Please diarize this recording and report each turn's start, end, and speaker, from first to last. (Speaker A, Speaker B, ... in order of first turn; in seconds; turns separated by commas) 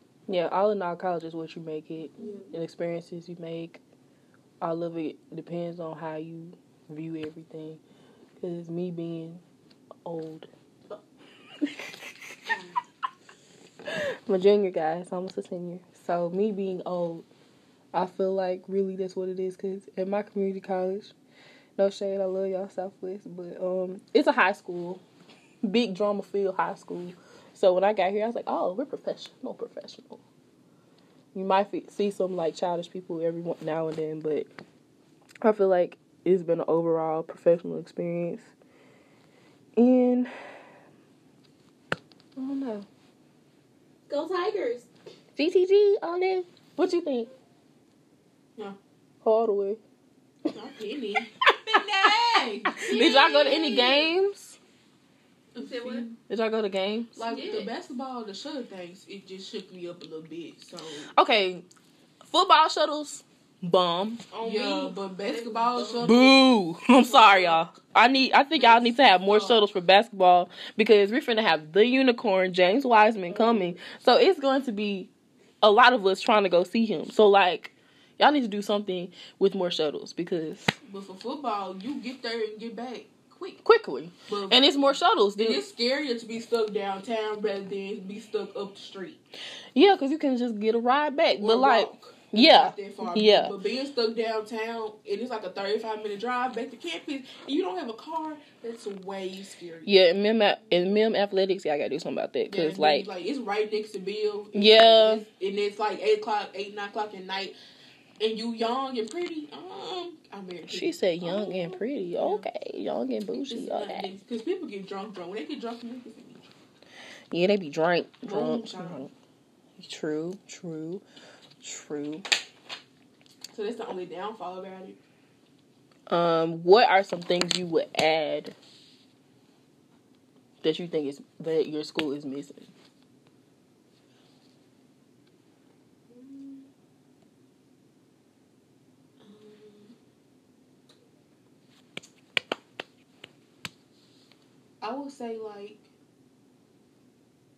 Speaker A: 0.3-3.8, Speaker B: 2.2-2.5, Speaker A: 4.6-7.8, Speaker A: 8.4-9.4, Speaker A: 10.0-10.5, Speaker A: 11.6-12.3, Speaker B: 12.5-12.8, Speaker A: 13.9-17.2, Speaker A: 17.9-21.1, Speaker A: 21.8-25.0, Speaker A: 25.6-30.2, Speaker A: 31.3-34.5, Speaker A: 35.4-38.5, Speaker A: 39.8-40.3, Speaker A: 42.4-42.9, Speaker B: 44.1-44.9, Speaker A: 45.4-47.3, Speaker A: 49.2-49.8, Speaker C: 50.5-52.9, Speaker A: 52.8-54.6, Speaker B: 52.8-54.1, Speaker C: 55.5-56.1, Speaker B: 55.6-56.1, Speaker A: 56.2-57.6, Speaker C: 57.1-61.1, Speaker B: 57.3-57.6, Speaker A: 61.1-61.6, Speaker A: 62.3-64.2, Speaker B: 64.3-66.2, Speaker C: 64.4-66.3, Speaker A: 66.0-75.1, Speaker C: 67.0-67.6, Speaker C: 68.5-69.6, Speaker B: 73.3-73.7, Speaker A: 75.6-80.8, Speaker C: 80.8-83.6, Speaker A: 83.6-85.6, Speaker C: 84.3-89.2, Speaker A: 89.7-93.5, Speaker C: 91.4-99.9, Speaker A: 99.8-103.1, Speaker C: 102.5-107.5, Speaker A: 104.5-105.2, Speaker C: 108.2-112.5, Speaker A: 110.7-114.1, Speaker C: 113.5-116.5, Speaker A: 117.3-119.1, Speaker C: 118.2-119.1, Speaker A: 119.8-121.0, Speaker A: 121.6-122.2, Speaker C: 123.5-125.0, Speaker A: 126.1-128.5, Speaker A: 130.6-132.7, Speaker B: 136.1-136.7, Speaker C: 139.2-139.9, Speaker C: 144.8-145.9